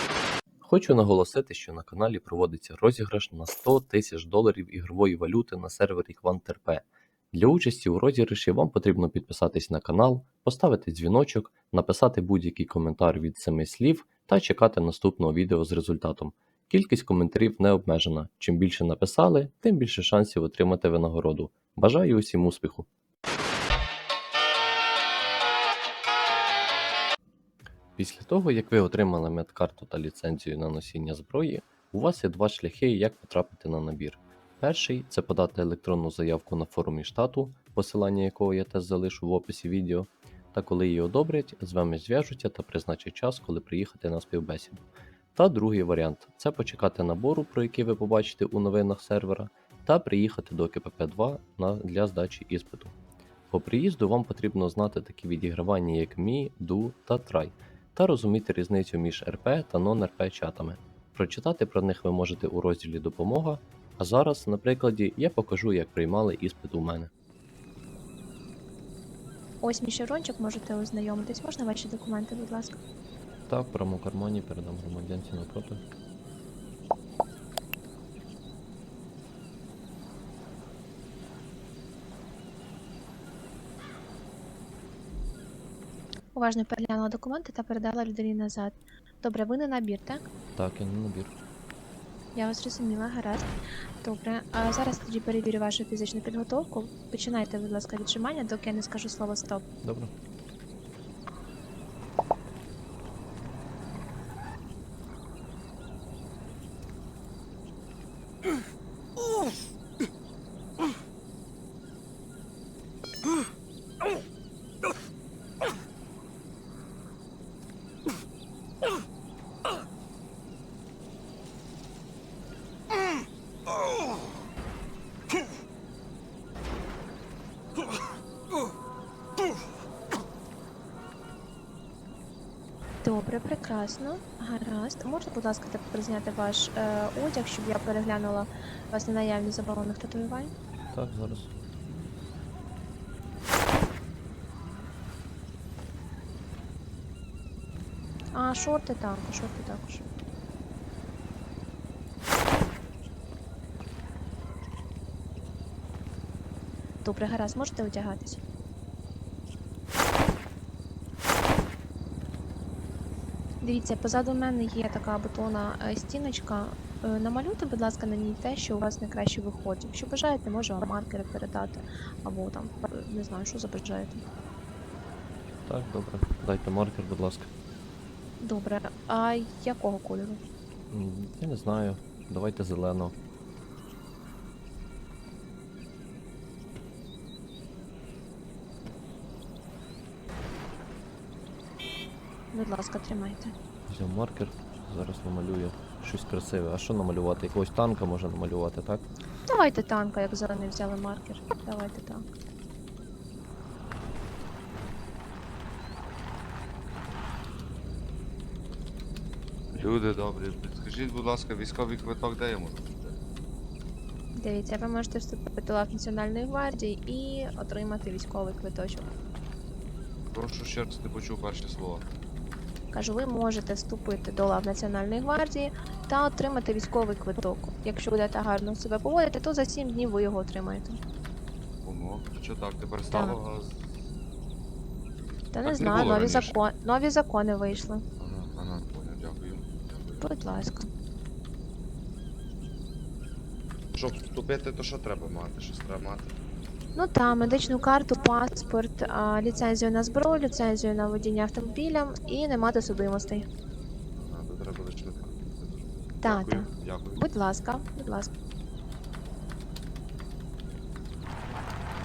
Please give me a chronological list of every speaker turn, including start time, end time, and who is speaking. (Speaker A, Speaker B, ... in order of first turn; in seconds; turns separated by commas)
Speaker A: 0.6-22.9, Speaker A: 28.0-44.8, Speaker A: 45.4-52.9, Speaker A: 53.5-67.1, Speaker B: 69.6-72.8, Speaker A: 73.5-75.8, Speaker B: 86.3-90.2, Speaker A: 90.6-91.4, Speaker B: 92.3-93.5, Speaker B: 94.0-99.6, Speaker A: 99.8-100.1, Speaker B: 133.0-140.5, Speaker A: 140.9-141.5, Speaker B: 148.3-150.0, Speaker B: 157.0-158.4, Speaker B: 163.6-174.2, Speaker A: 175.7-177.5, Speaker B: 178.4-180.4, Speaker A: 180.9-183.1, Speaker B: 192.5-193.5, Speaker A: 193.9-199.0, Speaker B: 199.4-202.2, Speaker C: 209.7-213.2, Speaker B: 214.3-219.1, Speaker C: 220.3-222.1, Speaker B: 222.9-231.0, Speaker C: 231.8-233.9, Speaker B: 233.1-233.4, Speaker B: 235.5-238.0, Speaker C: 235.6-236.6, Speaker C: 238.2-240.2, Speaker B: 240.2-240.9, Speaker C: 243.9-246.3, Speaker B: 246.9-253.4, Speaker C: 254.2-257.2, Speaker B: 256.2-258.3